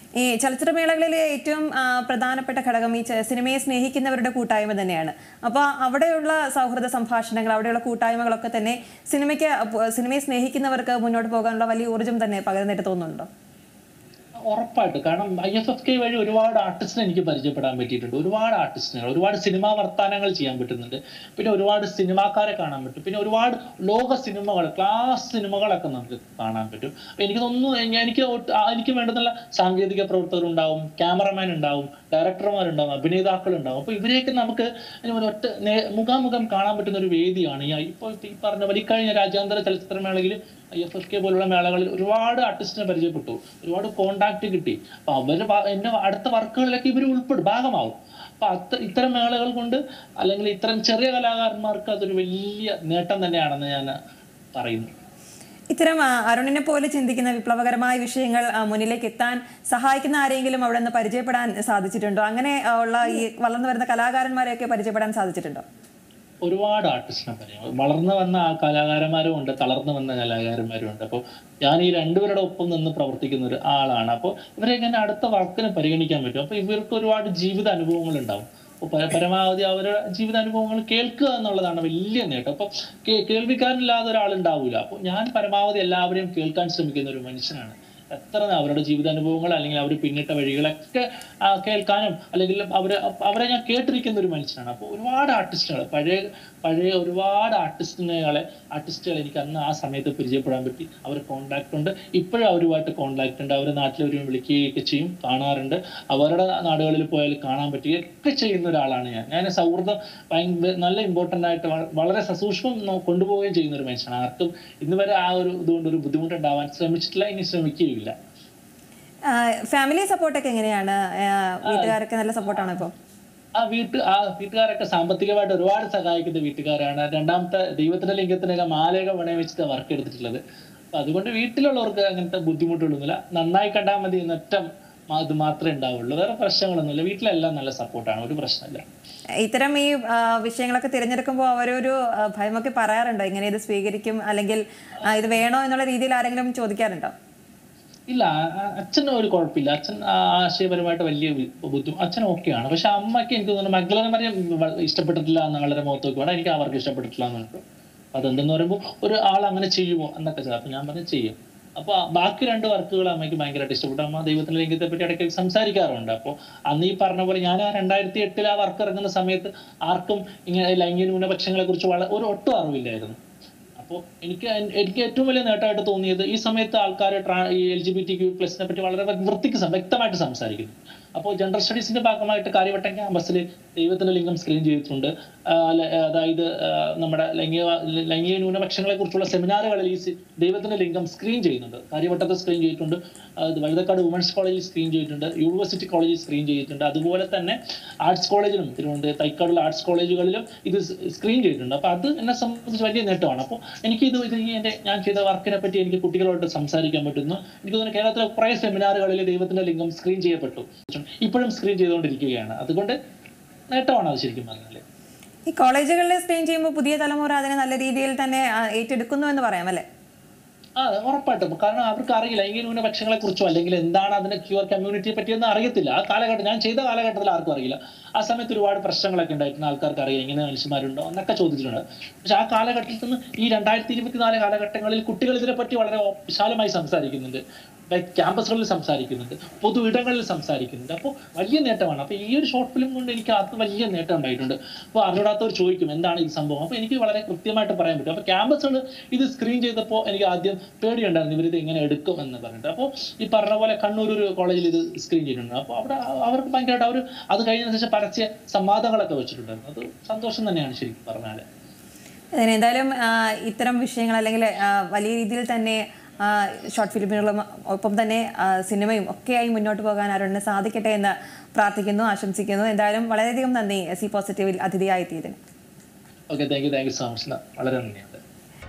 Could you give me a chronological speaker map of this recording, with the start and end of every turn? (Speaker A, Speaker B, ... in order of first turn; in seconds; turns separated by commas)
Speaker A: 0.2-13.3, Speaker B: 14.5-53.9, Speaker B: 54.5-54.9, Speaker A: 55.7-65.6, Speaker B: 66.4-118.1, Speaker A: 119.3-122.9, Speaker B: 121.7-121.9, Speaker B: 123.6-130.4, Speaker B: 130.9-138.8, Speaker A: 139.4-147.1, Speaker B: 148.1-157.6, Speaker B: 158.1-173.2, Speaker B: 173.8-212.9, Speaker B: 213.7-214.8, Speaker A: 215.5-219.8, Speaker B: 220.8-261.4, Speaker A: 262.4-275.4, Speaker B: 276.3-278.2